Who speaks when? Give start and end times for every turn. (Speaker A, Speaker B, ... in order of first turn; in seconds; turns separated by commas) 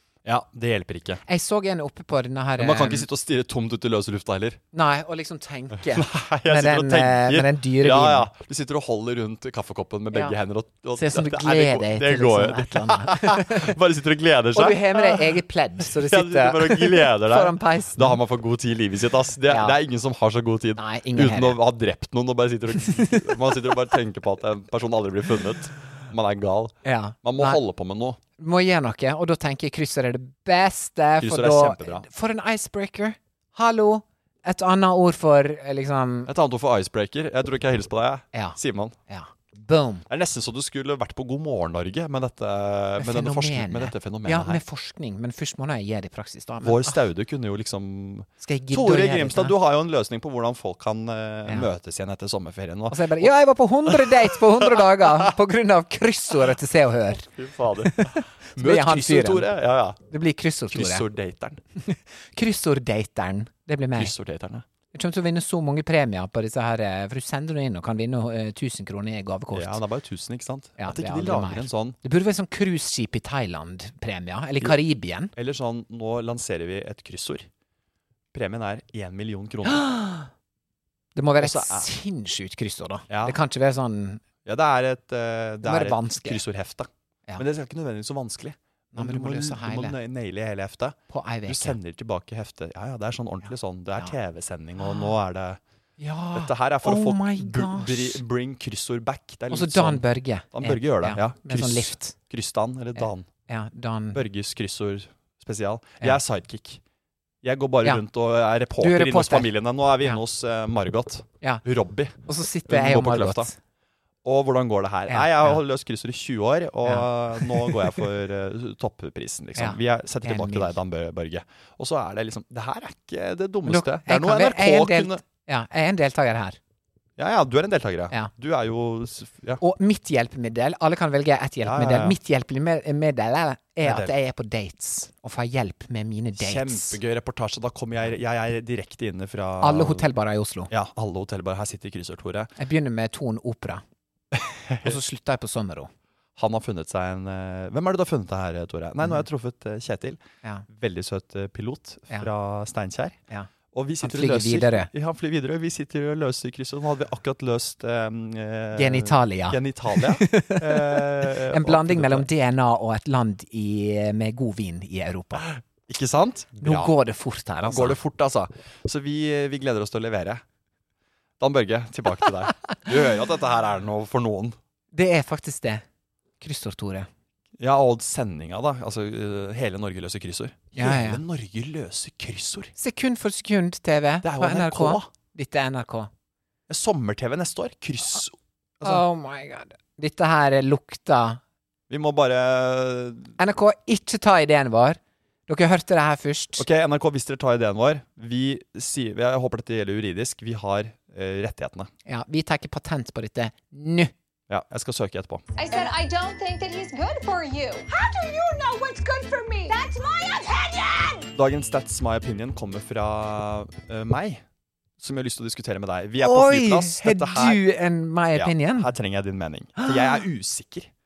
Speaker A: 0.2-1.2, Speaker B: 1.3-3.1, Speaker A: 2.6-4.6, Speaker B: 4.7-8.3, Speaker A: 5.8-28.2, Speaker B: 11.0-13.7, Speaker B: 14.5-18.2, Speaker B: 19.5-19.8, Speaker B: 20.8-21.6, Speaker B: 22.7-23.6, Speaker B: 26.9-27.6, Speaker B: 28.4-36.3, Speaker A: 31.2-32.1, Speaker A: 36.3-39.0, Speaker B: 38.3-40.1, Speaker A: 40.1-44.6, Speaker B: 43.0-47.0, Speaker A: 46.6-53.3, Speaker B: 48.4-49.6, Speaker B: 52.9-57.3, Speaker A: 53.9-55.0, Speaker A: 57.3-60.0, Speaker B: 57.9-59.5, Speaker B: 60.1-61.0, Speaker A: 60.7-61.6, Speaker B: 61.8-64.1, Speaker A: 64.0-64.7, Speaker B: 64.9-69.8, Speaker A: 69.5-72.0, Speaker B: 70.8-75.3, Speaker A: 75.3-77.5, Speaker A: 78.3-79.9, Speaker B: 79.7-80.3, Speaker B: 81.2-84.2, Speaker A: 81.4-81.9, Speaker A: 83.1-83.4, Speaker A: 84.5-95.6, Speaker B: 85.6-86.4, Speaker B: 88.9-90.0, Speaker B: 91.1-91.8, Speaker B: 94.8-95.1, Speaker B: 96.0-98.2, Speaker A: 96.3-103.3, Speaker B: 99.5-102.2, Speaker B: 103.0-104.2, Speaker A: 104.1-106.8, Speaker A: 107.4-113.5, Speaker B: 108.8-110.2, Speaker B: 112.2-113.6, Speaker A: 114.2-125.2, Speaker B: 115.1-115.6, Speaker B: 116.9-117.9, Speaker B: 119.6-120.8, Speaker B: 123.7-126.6, Speaker A: 127.2-129.6, Speaker B: 129.6-137.0, Speaker A: 131.6-132.2, Speaker A: 133.8-134.2, Speaker A: 136.4-140.1, Speaker B: 139.6-140.7, Speaker A: 140.7-142.5, Speaker B: 142.6-143.8, Speaker A: 144.4-145.0, Speaker B: 144.8-145.9, Speaker A: 146.4-153.2, Speaker A: 153.7-162.3, Speaker B: 154.0-154.9, Speaker B: 158.8-165.5, Speaker A: 165.4-166.9, Speaker B: 166.6-168.0, Speaker A: 167.7-170.4, Speaker A: 171.4-174.6, Speaker B: 174.9-175.8, Speaker B: 176.4-177.1, Speaker A: 177.6-182.7, Speaker B: 180.8-181.2, Speaker B: 182.8-186.1, Speaker A: 184.2-185.1, Speaker A: 186.7-189.0, Speaker B: 188.8-191.4, Speaker A: 191.9-193.3, Speaker B: 193.4-196.7, Speaker A: 196.6-201.9, Speaker B: 202.1-204.1, Speaker A: 204.5-205.4, Speaker C: 205.6-211.2, Speaker A: 211.3-214.4, Speaker A: 215.0-217.6, Speaker B: 216.2-218.9, Speaker A: 218.3-220.9, Speaker B: 219.8-220.2